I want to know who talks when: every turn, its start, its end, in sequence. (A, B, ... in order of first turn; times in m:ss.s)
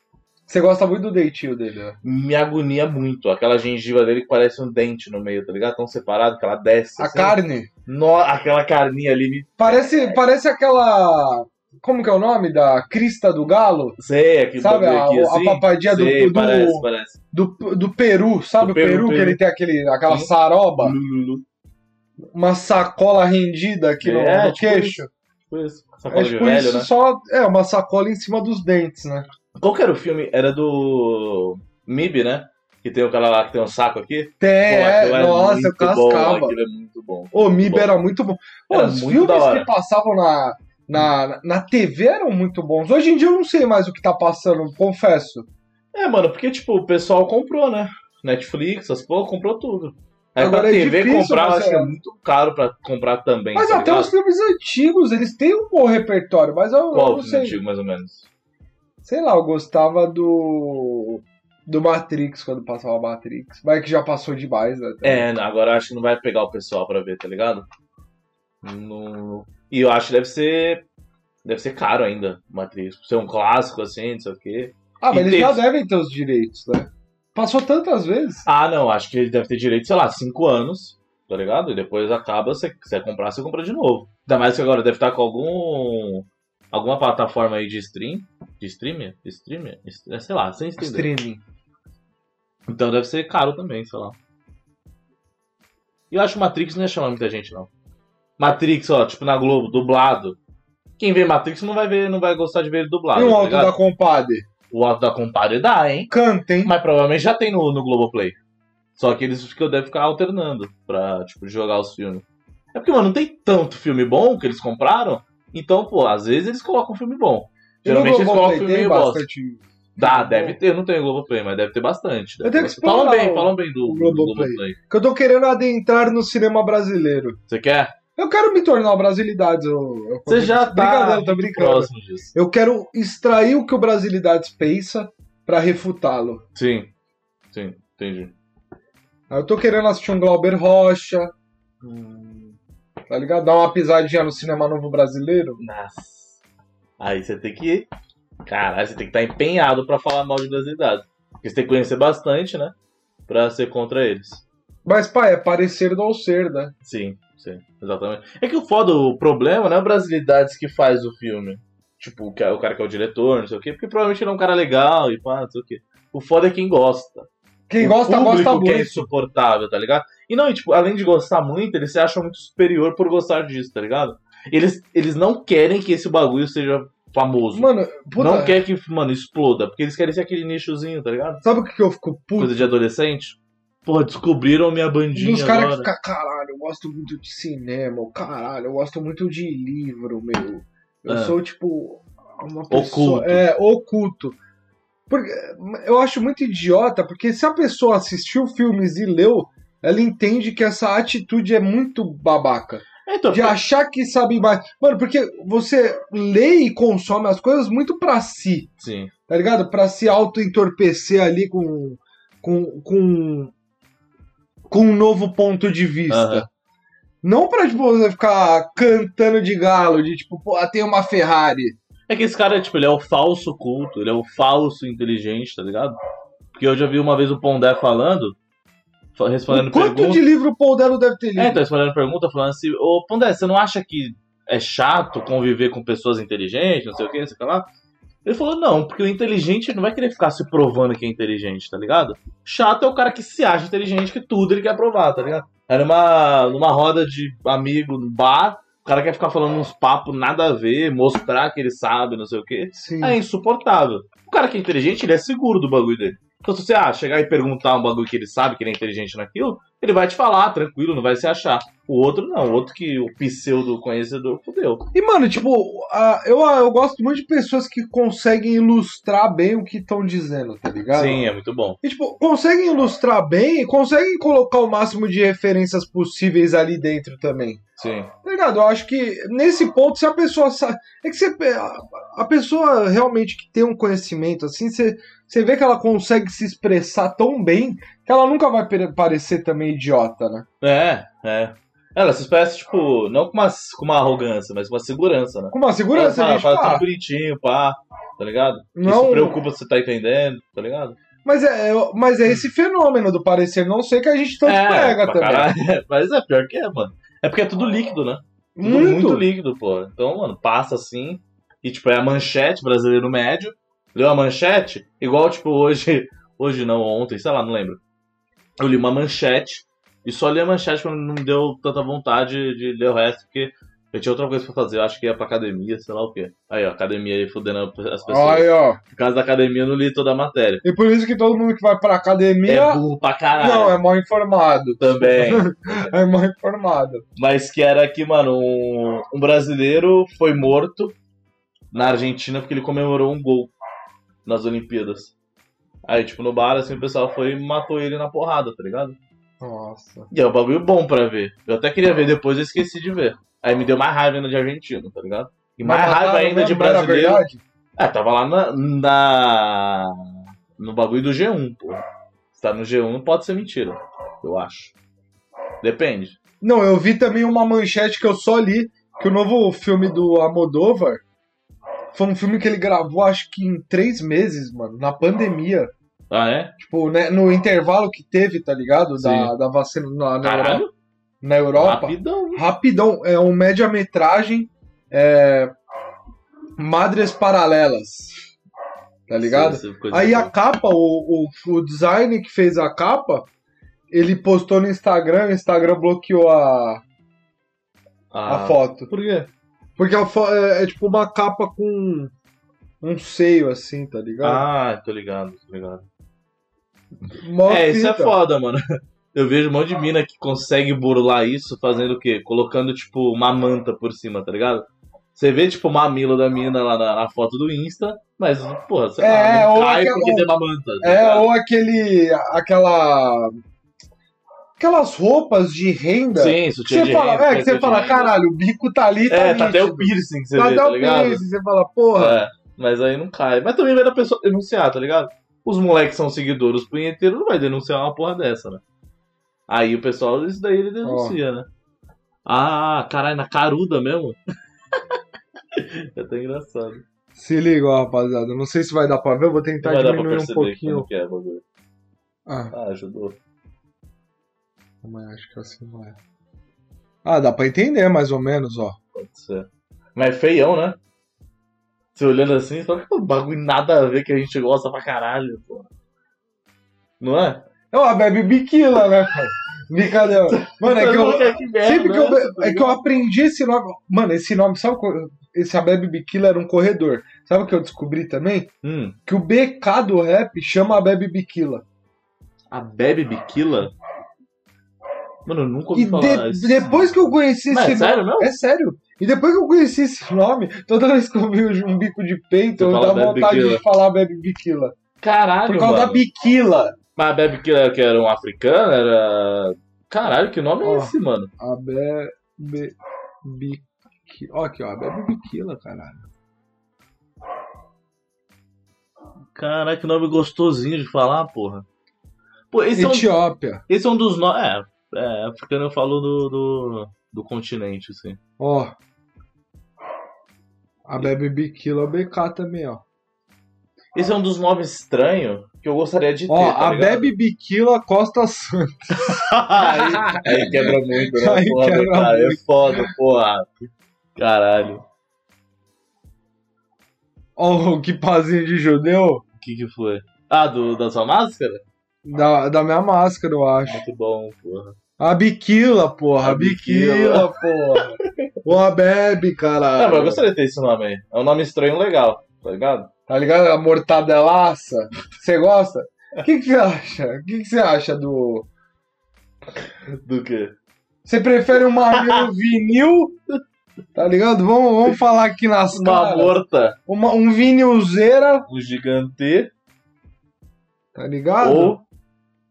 0:00.5-0:02.0 A
0:02.0-0:10.2 B
0:07.0-0:07.7 A
0:09.6-0:14.0 A
0:14.0-0:17.2 B
0:14.6-0:21.0 A
0:18.6-0:19.4 B
0:20.1-0:21.4 B
0:22.3-0:25.1 A
0:24.0-0:26.9 B
0:26.1-0:29.3 A
0:29.6-0:38.0 B
0:34.4-0:36.6 A
0:37.3-0:45.5 A
0:38.7-0:39.7 B
0:45.9-0:54.1 B
0:50.4-0:51.9 A
0:53.6-0:57.6 A
0:56.9-0:58.3 B
0:59.0-1:05.3 A
1:05.0-1:07.7 B
1:08.6-1:10.8 B
1:11.4-1:15.6 B
1:15.0-1:18.4 A
1:18.5-1:31.1 B
1:30.8-1:31.4 A
1:32.7-1:34.2 B
1:36.1-1:37.7 B
1:38.4-1:40.4 B
1:41.0-1:43.8 B
1:43.2-1:44.5 A
1:44.7-1:46.1 B
1:46.1-1:46.7 A
1:46.6-1:48.4 B
1:49.0-1:59.3 B
1:57.8-2:00.6 A
2:00.0-2:04.8 B
2:02.4-2:07.4 A
2:07.5-2:07.9 B
2:08.2-2:16.4 A
2:10.3-2:12.3 B
2:16.6-2:16.9 B
2:17.5-2:18.3 B
2:19.3-2:21.3 A
2:21.8-2:22.5 B
2:23.1-2:25.6 A
2:25.6-2:26.4 B
2:27.0-2:27.9 B
2:28.5-2:32.7 B
2:33.3-2:34.4 B
2:34.8-2:36.7 A
2:36.8-2:47.3 B
2:47.7-2:49.1 A
2:47.8-3:01.4 B
2:57.5-2:58.6 A
3:01.4-3:02.7 A
3:02.4-3:05.9 B
3:05.2-3:14.4 A
3:11.1-3:11.4 B
3:12.7-3:13.4 B
3:15.1-3:28.7 A
3:23.1-3:23.6 B
3:28.8-3:29.1 B
3:29.3-3:33.5 A
3:34.7-3:36.5 A
3:36.1-3:36.5 B
3:37.2-3:41.8 A
3:42.1-3:46.0 B
3:46.6-3:48.4 B
3:49.2-3:50.2 B
3:49.5-3:51.6 A
3:51.4-3:57.7 B
3:58.2-4:24.9 B
4:12.8-4:13.2 A
4:24.9-4:31.2 A
4:30.9-4:31.8 B
4:31.8-4:37.6 A
4:37.8-4:38.1 B
4:38.2-4:50.5 A
4:50.6-5:01.0 B
4:55.5-4:56.8 A
4:58.8-4:59.4 A
5:01.2-5:05.5 A
5:04.4-5:17.8 B
5:08.6-5:09.3 A
5:18.6-5:30.6 B
5:28.1-5:28.8 A
5:30.6-5:32.8 A
5:32.5-5:33.8 B
5:33.4-5:37.0 A
5:34.8-5:35.9 B
5:37.2-5:41.0 B
5:41.7-5:43.5 B
5:44.2-5:45.1 B
5:45.8-5:49.0 B
5:49.4-5:50.1 A
5:50.1-5:57.2 B
5:55.6-5:57.4 A
5:57.8-6:00.0 B
6:00.6-6:04.8 B
6:05.6-6:06.2 B
6:06.4-6:11.0 A
6:11.9-6:15.7 A
6:16.1-6:16.5 B
6:16.6-6:20.6 A
6:19.0-6:19.3 B
6:20.2-6:20.7 B
6:21.2-6:25.5 A
6:21.6-6:22.4 B
6:26.6-6:28.2 A
6:29.1-6:33.3 A
6:29.2-6:30.3 B
6:33.9-6:36.8 A
6:38.1-6:39.3 B
6:38.3-6:38.9 A
6:39.8-6:42.1 A
6:42.8-6:44.4 A
6:44.2-6:45.8 B
6:47.1-6:48.2 A
6:47.4-7:01.3 B
6:59.0-7:03.3 A
7:04.6-7:12.2 A
7:06.2-7:08.2 B
7:09.1-7:11.2 B
7:12.0-7:18.6 B
7:19.5-7:21.5 B
7:20.8-7:21.2 A
7:22.3-7:24.2 B
7:25.5-7:26.8 B
7:27.2-7:30.9 A
7:29.6-7:31.4 B
7:32.3-7:32.5 A
7:32.5-7:33.2 B
7:34.8-7:36.0 A
7:37.0-7:38.8 A
7:39.0-7:40.8 B
7:42.0-7:45.7 B
7:47.0-7:47.4 B
7:47.7-7:58.5 A
7:50.3-7:52.8 B
7:58.6-7:59.0 B
7:59.1-8:01.6 A
8:02.5-8:03.7 B
8:05.3-8:08.3 B
8:05.7-8:14.7 A
8:12.6-8:13.6 B
8:15.0-8:16.0 B
8:15.5-8:16.8 A
8:17.0-8:21.3 B
8:20.6-8:26.1 A
8:29.3-8:31.7 B
8:32.5-8:33.1 B
8:32.8-8:33.6 A
8:33.7-8:38.2 B
8:38.4-8:38.8 A
8:40.9-8:42.8 A
8:44.0-8:47.1 B
8:46.3-8:52.9 A
8:49.0-8:53.5 B
8:54.2-8:54.9 B
8:57.4-8:59.2 A
8:59.4-9:01.6 B
9:02.0-9:03.8 A
9:03.7-9:04.8 B
9:05.0-9:10.2 A
9:06.2-9:08.3 B
9:09.8-9:12.9 B
9:13.1-9:18.5 A
9:19.6-9:20.6 B
9:21.0-9:23.2 A
9:21.9-9:22.3 B
9:24.0-9:26.4 A
9:25.7-9:26.8 B
9:26.9-9:28.5 A
9:28.5-9:29.5 B
9:30.9-9:31.8 A
9:31.4-9:31.8 B